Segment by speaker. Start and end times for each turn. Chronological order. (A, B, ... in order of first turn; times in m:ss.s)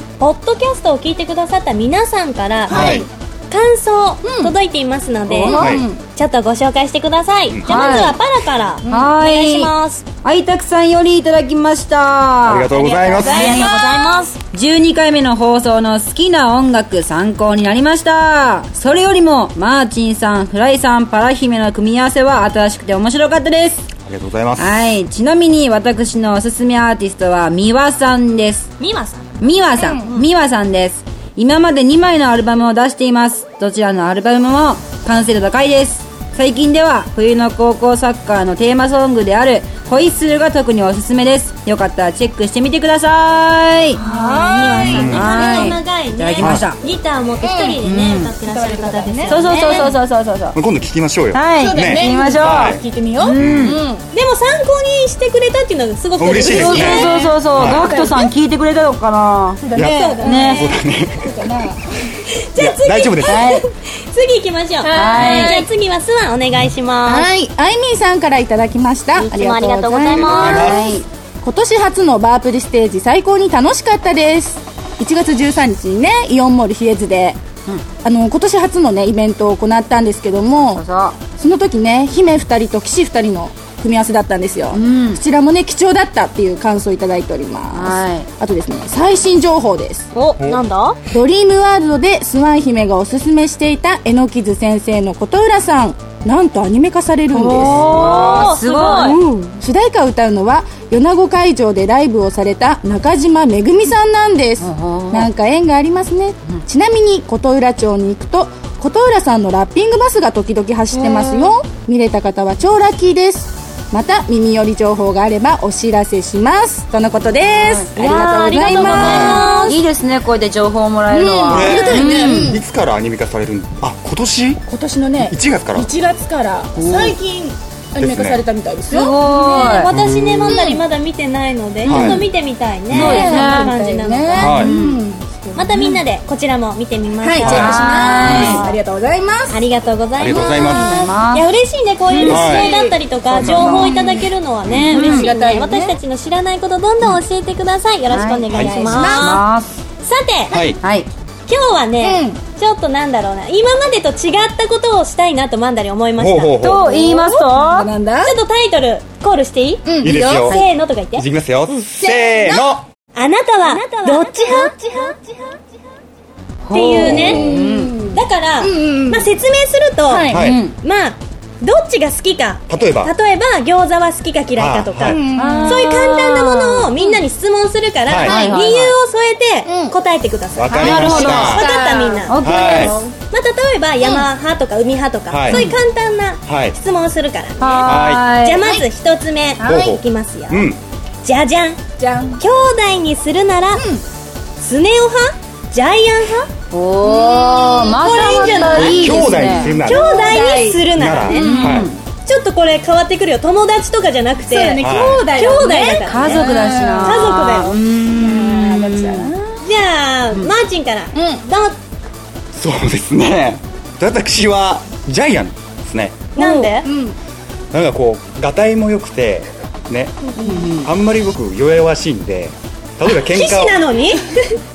0:00.2-0:10.0 A
0:02.7-0:03.0 B
0:02.7-0:03.1 C
0:04.2-0:04.5 C
0:05.3-0:06.0 C
0:05.4-0:05.6 D
0:05.5-0:05.8 B
0:07.5-0:07.8 B
0:07.6-0:08.2 D
0:08.8-0:09.1 C
0:08.9-0:09.7 D
0:10.2-0:13.9 D
0:12.4-0:13.5 B
0:12.7-0:14.3 A
0:13.2-0:14.3 C
0:14.5-0:23.8 D
0:24.1-0:25.0 B
0:24.6-0:28.7 D
0:28.8-0:30.3 A
0:29.4-0:44.0 D
0:44.0-0:45.7 C
0:44.0-0:49.9 A
0:44.6-0:46.8 D
0:44.8-0:45.3 B
0:46.4-0:46.7 B
0:47.4-0:47.8 C
0:47.8-0:48.3 D
0:48.5-0:49.9 C
0:49.3-0:50.6 D
0:50.5-0:52.8 B
0:51.3-0:53.8 D
0:51.5-0:54.0 C
0:53.3-0:53.8 B
0:54.1-0:57.3 A
0:56.2-0:57.8 B
0:56.3-0:58.3 C
0:56.3-0:59.6 D
0:59.6-1:00.6 C
0:59.7-1:01.3 B
0:59.8-1:00.9 A
1:00.2-1:00.7 D
1:01.2-1:02.1 C
1:02.4-1:07.3 A
1:02.6-1:03.4 B
1:03.2-1:03.6 D
1:04.8-1:05.7 C
1:04.9-1:05.6 D
1:07.0-1:17.4 C
1:09.1-1:10.8 A
1:10.2-1:10.9 B
1:10.3-1:11.0 D
1:18.0-1:20.8 C
1:20.7-1:21.2 D
1:21.3-1:30.1 C
1:24.7-1:25.2 D
1:27.7-1:28.3 D
1:30.1-1:31.0 A
1:31.1-1:59.7 C
1:37.3-1:39.2 D
1:37.7-1:39.2 A
1:44.6-1:45.3 D
1:50.9-1:51.5 D
1:57.4-2:02.6 D
1:57.9-1:59.8 A
1:59.0-1:59.5 B
2:01.1-2:02.6 C
2:01.5-2:04.6 B
2:04.7-2:09.8 C
2:05.2-2:05.9 B
2:06.8-2:07.2 D
2:08.0-2:08.4 B
2:08.9-2:09.9 D
2:09.2-2:14.6 A
2:09.9-2:10.6 B
2:10.5-2:10.8 C
2:11.8-2:12.2 D
2:11.8-2:12.3 B
2:12.9-2:13.7 D
2:12.9-2:16.0 C
2:14.4-2:14.7 B
2:14.4-2:15.0 D
2:15.5-2:18.8 A
2:17.2-2:19.6 C
2:17.4-2:18.5 B
2:17.4-2:18.6 D
2:19.5-2:29.4 A
2:20.2-2:21.0 B
2:20.3-2:21.4 D
2:22.1-2:22.5 D
2:22.2-2:24.2 C
2:22.2-2:22.7 B
2:23.3-2:23.8 B
2:23.4-2:24.0 D
2:24.7-2:25.0 B
2:24.8-2:25.3 D
2:25.0-2:26.0 C
2:28.1-2:29.8 D
2:28.5-2:28.8 B
2:28.6-2:29.4 C
2:30.0-2:30.6 A
2:30.5-2:30.8 B
2:30.8-2:31.1 D
2:31.5-2:37.6 A
2:32.0-2:32.4 C
2:36.2-2:36.9 B
2:36.6-2:37.9 D
2:37.6-2:38.3 C
2:38.2-2:42.0 A
2:39.8-2:40.6 C
2:40.0-2:42.8 B
2:42.0-2:42.6 C
2:43.1-2:45.0 A
2:43.8-2:45.2 C
2:46.6-2:48.1 D
2:46.7-2:47.4 A
2:47.0-2:47.6 B
2:47.0-2:49.3 C
2:48.1-3:10.7 A
2:50.1-2:50.4 C
2:50.3-2:50.6 B
2:50.3-2:50.7 D
2:52.7-2:53.1 B
2:54.6-2:55.2 B
2:55.0-2:55.9 C
2:55.3-2:56.9 D
2:58.0-2:58.4 B
2:58.2-2:59.0 D
2:59.7-2:59.9 C
3:00.6-3:01.6 B
3:00.7-3:01.7 D
3:00.8-3:03.1 C
3:02.2-3:03.0 D
3:02.4-3:03.0 B
3:04.0-3:04.2 C
3:05.3-3:05.7 B
3:05.5-3:05.7 D
3:06.5-3:06.7 B
3:07.6-3:08.6 D
3:07.8-3:08.2 B
3:09.6-3:09.9 C
3:09.6-3:10.8 B
3:11.2-3:11.8 A
3:12.0-3:12.4 C
3:12.4-3:13.8 A
3:13.7-3:14.0 C
3:14.6-3:16.5 A
3:16.7-3:19.8 D
3:17.0-3:21.9 C
3:17.8-3:21.5 A
3:18.7-3:20.2 B
3:20.9-3:21.9 B
3:21.3-3:22.0 D
3:22.2-3:27.8 A
3:24.4-3:27.3 C
3:24.8-3:25.3 B
3:25.6-3:29.3 D
3:28.1-3:29.7 C
3:29.6-3:31.8 A
3:31.1-3:31.4 C
3:32.5-3:36.3 B
3:36.3-3:36.9 A
3:36.4-3:37.2 C
3:37.7-3:40.2 B
3:40.4-3:40.9 D
3:40.4-3:40.7 C
3:40.8-3:43.8 B
3:43.1-3:44.6 A